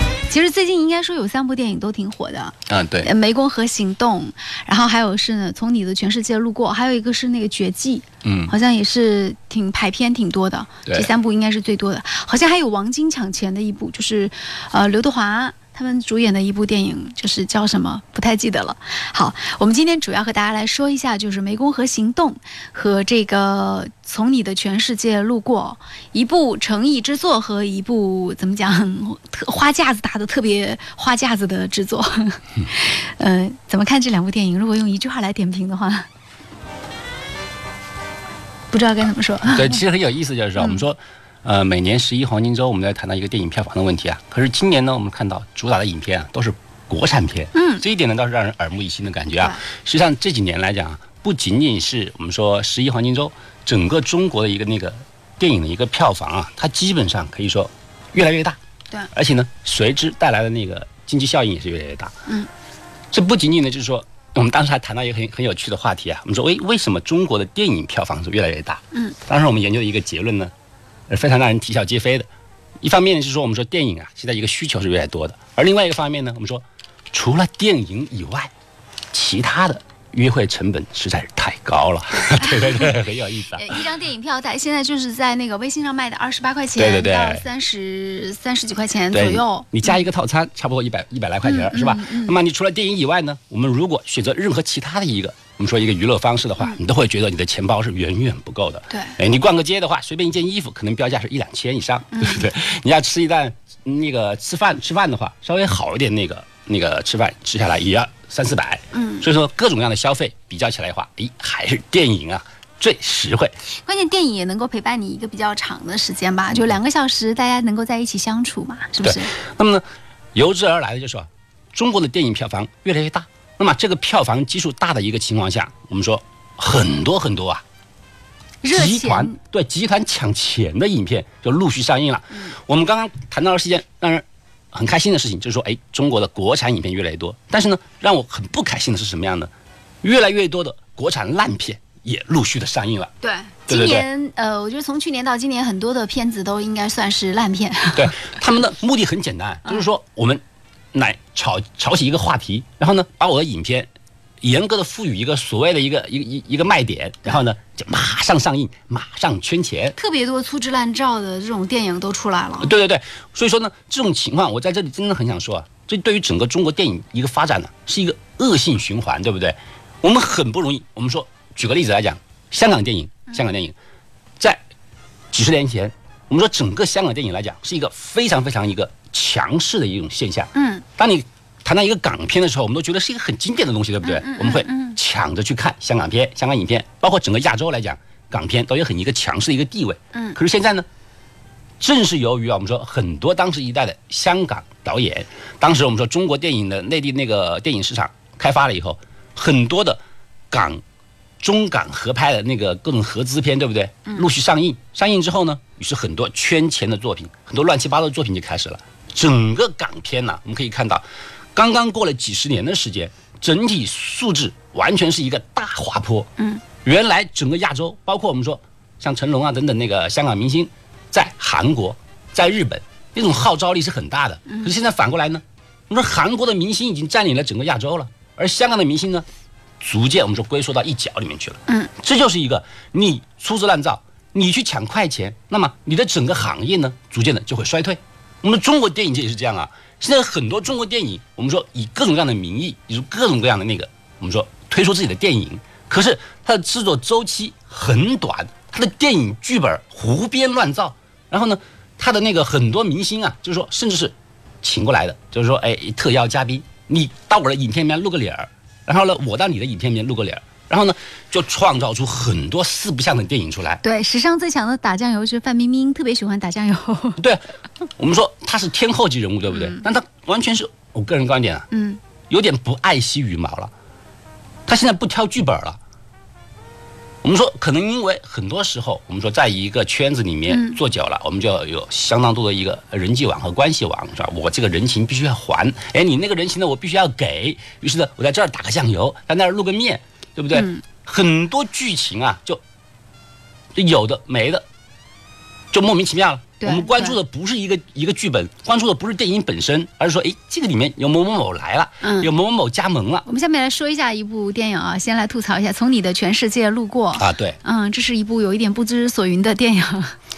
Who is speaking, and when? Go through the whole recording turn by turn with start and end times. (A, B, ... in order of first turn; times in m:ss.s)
0:00.3-0:36.1 A
0:02.7-0:03.1 B
0:08.2-0:08.5 B
0:38.7-0:39.8 A
0:39.5-0:58.6 B
0:40.6-0:40.8 A
0:47.5-0:47.8 A
0:59.1-1:02.1 B
1:03.1-1:10.5 B
1:11.1-1:12.3 B
1:12.8-1:18.5 B
1:19.1-1:23.8 B
1:22.3-1:23.0 A
1:23.5-1:30.0 A
1:26.8-1:27.4 B
1:29.1-1:53.5 B
1:31.4-1:32.4 A
1:42.2-1:42.4 A
1:48.9-1:49.3 A
1:53.8-1:59.3 A
1:59.0-1:59.8 B
2:00.4-2:07.6 B
2:08.6-2:09.4 A
2:08.7-2:19.5 B
2:20.0-2:23.1 B
2:23.2-2:28.4 A
2:23.7-2:24.1 B
2:28.0-2:30.4 B
2:30.9-2:33.9 B
2:34.4-2:40.0 B
2:40.0-2:42.7 A
2:42.6-2:53.8 B
2:55.3-3:10.9 B
3:00.5-3:00.8 A
3:04.0-3:05.0 A
3:11.8-3:20.0 B
3:20.5-3:20.8 B
3:21.4-3:31.0 B
3:31.6-3:36.3 B
3:36.8-3:49.2 B
3:49.8-4:23.8 B
4:23.8-4:27.2 A
4:28.0-4:31.7 B
4:29.5-4:29.8 A
4:31.7-4:32.0 A
4:32.3-4:33.7 B
4:34.7-4:35.8 B
4:37.2-4:52.6 B
4:40.5-4:40.8 A
4:50.5-4:50.8 A
4:53.8-4:54.6 B
4:55.7-5:03.3 B
4:56.6-4:57.2 A
5:02.0-5:02.3 A
5:03.3-5:10.2 A
5:07.2-5:07.6 B